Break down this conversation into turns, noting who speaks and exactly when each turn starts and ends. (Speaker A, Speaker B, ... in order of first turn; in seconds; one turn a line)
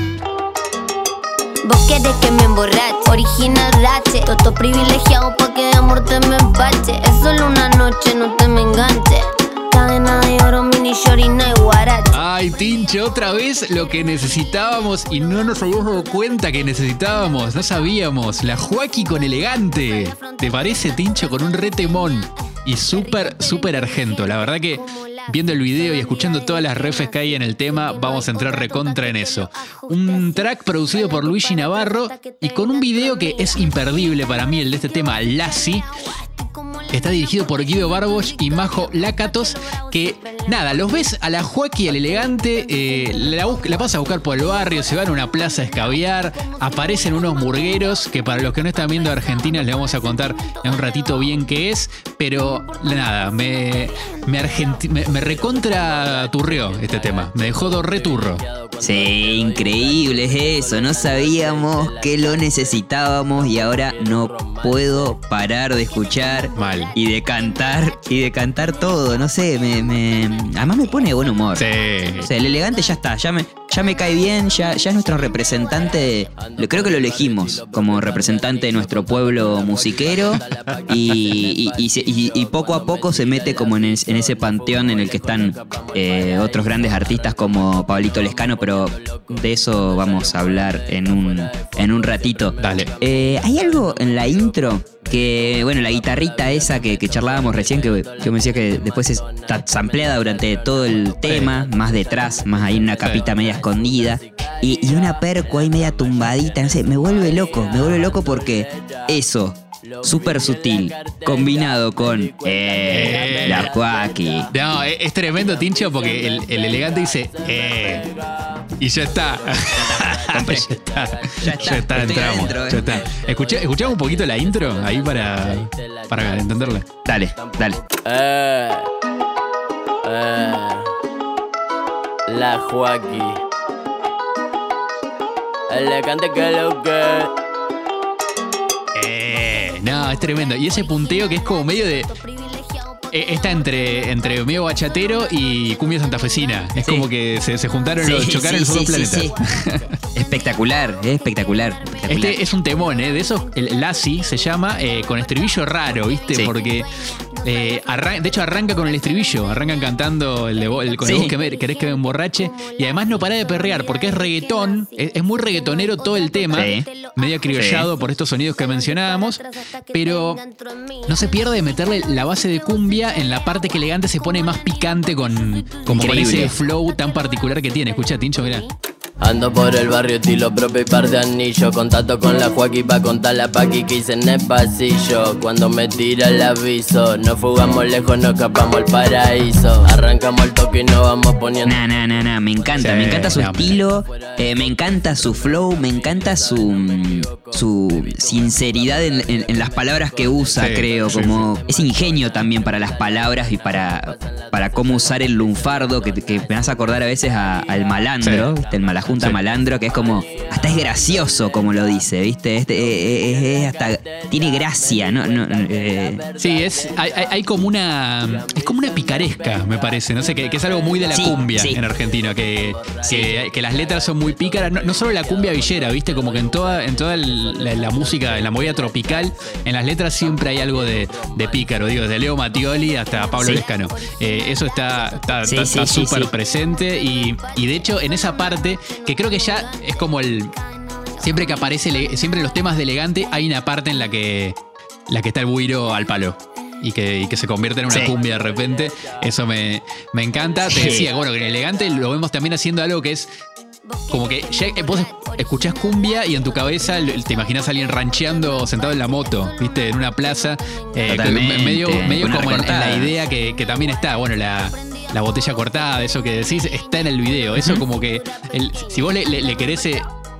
Speaker A: 1.6-12.2
Speaker B: 12.1-35.9
Speaker B: 36.9-58.4
Speaker C: 55.8-62.8
Speaker D: 58.8-71.7
Speaker C: 63.5-65.2
Speaker B: 66.5-66.9
Speaker B: 71.5-72.3
Speaker D: 72.2-114.5
Speaker C: 76.3-93.1
Speaker B: 92.6-92.9
Speaker C: 93.8-94.3
Speaker C: 95.7-109.1
Speaker B: 101.2-101.5
Speaker C: 109.9-114.5
Speaker B: 112.9-113.7
Speaker B: 114.5-118.1
Speaker C: 115.4-128.9
Speaker B: 118.8-126.8
Speaker D: 119.8-120.7
Speaker D: 121.3-122.9
Speaker D: 127.0-127.8
Speaker C: 130.0-130.9
Speaker C: 132.3-133.4
Speaker C: 135.7-137.3
Speaker B: 138.9-142.1
Speaker B: 143.1-149.9
Speaker D: 146.8-147.1
Speaker D: 148.0-149.3
Speaker D: 150.1-152.4
Speaker B: 152.1-156.9
Speaker B: 157.4-170.4
Speaker D: 161.0-161.3
Speaker D: 166.5-166.9
Speaker D: 167.5-167.9
Speaker A: 170.4-171.0
Speaker B: 171.1-178.7
Speaker D: 175.8-176.5
Speaker C: 179.2-191.8
Speaker D: 191.6-216.2
Speaker B: 192.8-193.8
Speaker C: 194.1-194.4
Speaker C: 196.3-208.8
Speaker B: 200.6-201.5
Speaker B: 208.2-208.5
Speaker C: 209.9-212.1
Speaker C: 212.7-217.6
Speaker B: 216.4-240.5
Speaker C: 218.2-229.6
Speaker D: 221.1-221.8
Speaker D: 223.0-223.3
Speaker C: 230.2-232.3
Speaker D: 233.4-233.6
Speaker D: 235.4-236.3
Speaker B: 241.2-244.6
Speaker B: 245.1-253.3
Speaker D: 247.9-248.1
Speaker D: 250.7-251.1
Speaker B: 254.1-270.1
Speaker D: 261.1-263.1
Speaker D: 267.5-267.8